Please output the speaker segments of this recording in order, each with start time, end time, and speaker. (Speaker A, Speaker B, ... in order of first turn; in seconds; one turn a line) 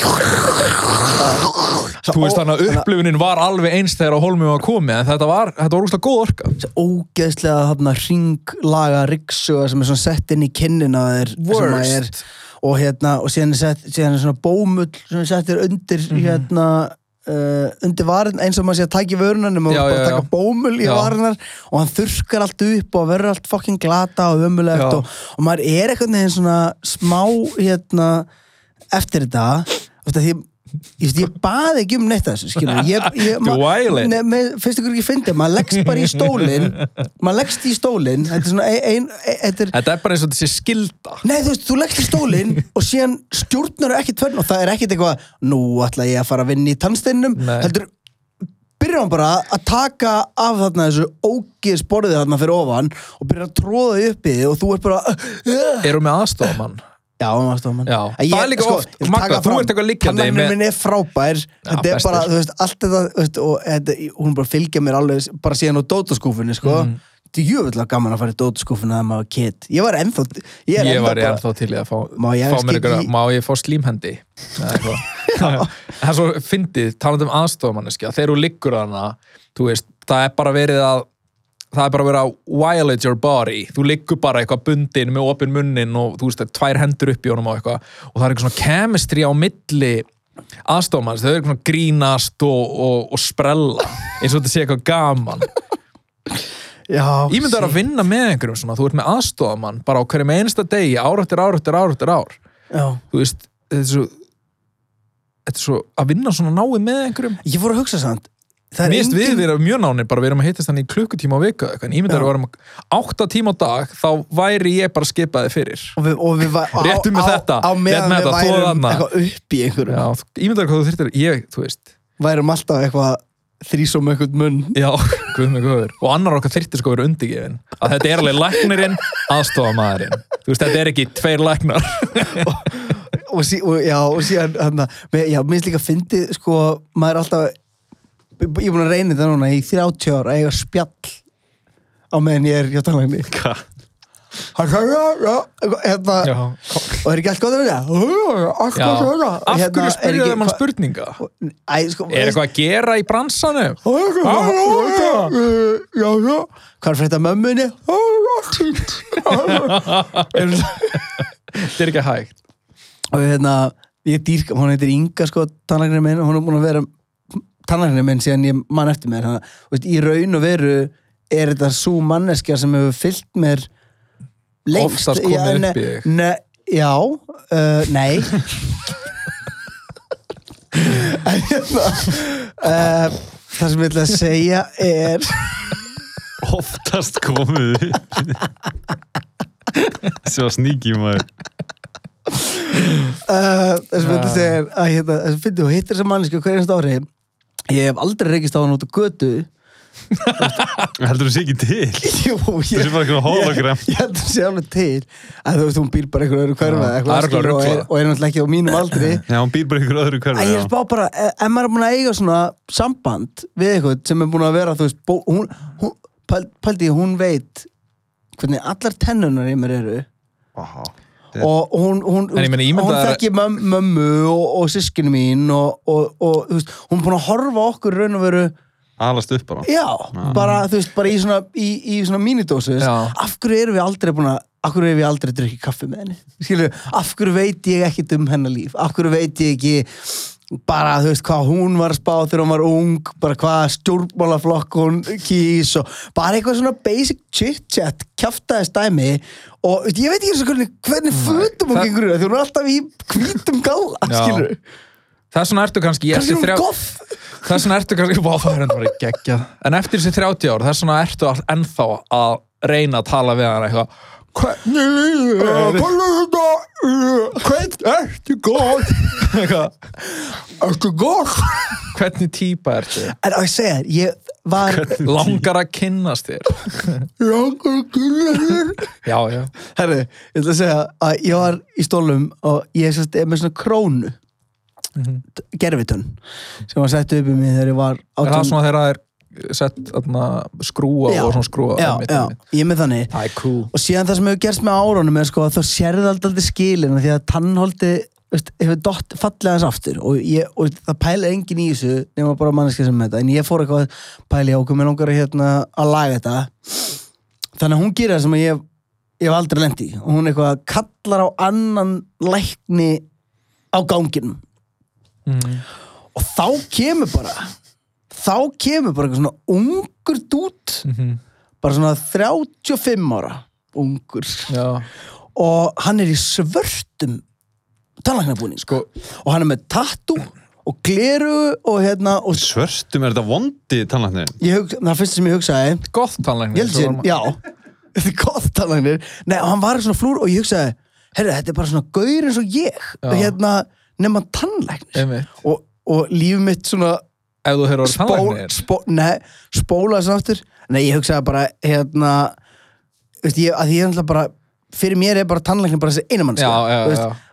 Speaker A: 0.3-1.2
Speaker B: 1.1-2.9
Speaker A: 2.1-6.6
Speaker B: 6.6-28.3
Speaker A: 11.4-12.2
Speaker A: 16.1-16.5
Speaker A: 19.7-20.3
Speaker A: 20.8-21.1
Speaker A: 24.7-25.0
Speaker B: 28.9-30.5
Speaker B: 31.0-39.8
Speaker A: 32.6-34.2
Speaker A: 36.0-36.9
Speaker A: 39.7-41.2
Speaker B: 41.2-47.9
Speaker A: 47.4-47.7
Speaker B: 48.8-55.9
Speaker A: 55.8-56.8
Speaker B: 57.2-71.4
Speaker A: 57.9-60.6
Speaker A: 61.6-62.3
Speaker A: 66.6-67.0
Speaker A: 70.8-81.1
Speaker B: 72.1-73.1
Speaker B: 75.3-75.7
Speaker A: 81.7-90.1
Speaker A: 90.7-95.5
Speaker B: 96.9-97.8
Speaker A: 97.3-102.4
Speaker B: 102.7-103.0
Speaker A: 103.1-104.1
Speaker A: 105.5-107.4
Speaker B: 107.4-109.5
Speaker A: 108.8-116.0
Speaker B: 116.0-120.0
Speaker A: 116.8-119.1
Speaker A: 119.9-121.9
Speaker B: 122.2-124.8
Speaker A: 124.8-132.6
Speaker B: 132.3-137.6
Speaker B: 138.4-141.2
Speaker B: 142.1-143.3
Speaker C: 143.3-143.6
Speaker B: 144.6-146.4
Speaker A: 146.2-147.1
Speaker B: 147.0-150.6
Speaker A: 148.8-151.2
Speaker B: 151.2-152.4
Speaker A: 152.1-155.3
Speaker B: 153.8-161.1
Speaker A: 159.4-162.4
Speaker B: 163.1-173.7
Speaker B: 174.7-178.6
Speaker A: 174.7-176.1
Speaker B: 180.8-185.7
Speaker C: 186.4-188.5
Speaker C: 190.2-191.3
Speaker B: 193.2-197.1
Speaker A: 194.0-194.6
Speaker B: 197.7-199.5
Speaker A: 200.1-200.9
Speaker C: 201.0-202.2
Speaker B: 202.0-209.2
Speaker C: 202.7-204.0
Speaker A: 206.6-207.9
Speaker C: 209.3-210.7
Speaker B: 210.3-217.7
Speaker B: 218.4-220.1
Speaker C: 220.6-221.5
Speaker B: 221.4-228.5
Speaker A: 222.3-223.2
Speaker C: 229.0-230.4
Speaker B: 229.6-254.6
Speaker A: 230.2-230.7
Speaker A: 232.8-233.2
Speaker A: 251.2-251.9
Speaker A: 254.1-254.5
Speaker A: 255.3-256.7
Speaker B: 256.1-257.1
Speaker A: 257.4-263.9
Speaker B: 264.4-269.3
Speaker A: 265.4-265.9
Speaker A: 269.2-269.8
Speaker B: 270.1-271.9
Speaker A: 271.9-273.1
Speaker B: 273.2-275.0
Speaker C: 274.6-275.4
Speaker A: 275.0-277.1
Speaker B: 277.2-278.9
Speaker A: 279.1-279.5
Speaker B: 279.6-284.2
Speaker A: 285.0-285.2
Speaker B: 285.4-288.6
Speaker A: 288.2-292.4
Speaker B: 291.1-293.1
Speaker A: 293.1-293.7
Speaker B: 293.7-307.0
Speaker B: 307.6-308.6
Speaker B: 309.2-313.0
Speaker B: 313.7-314.4
Speaker A: 315.3-315.6
Speaker B: 316.1-317.5
Speaker B: 318.1-320.9
Speaker A: 320.9-321.2
Speaker B: 321.6-324.5
Speaker A: 324.5-324.9
Speaker B: 325.4-327.2
Speaker B: 328.0-332.5
Speaker C: 332.3-334.4
Speaker B: 334.4-335.9
Speaker A: 335.9-337.1
Speaker B: 336.5-337.4
Speaker B: 337.9-347.0
Speaker A: 343.0-343.4
Speaker A: 344.9-345.3
Speaker A: 347.4-348.6
Speaker B: 347.8-352.4
Speaker B: 353.2-357.1
Speaker A: 356.4-357.2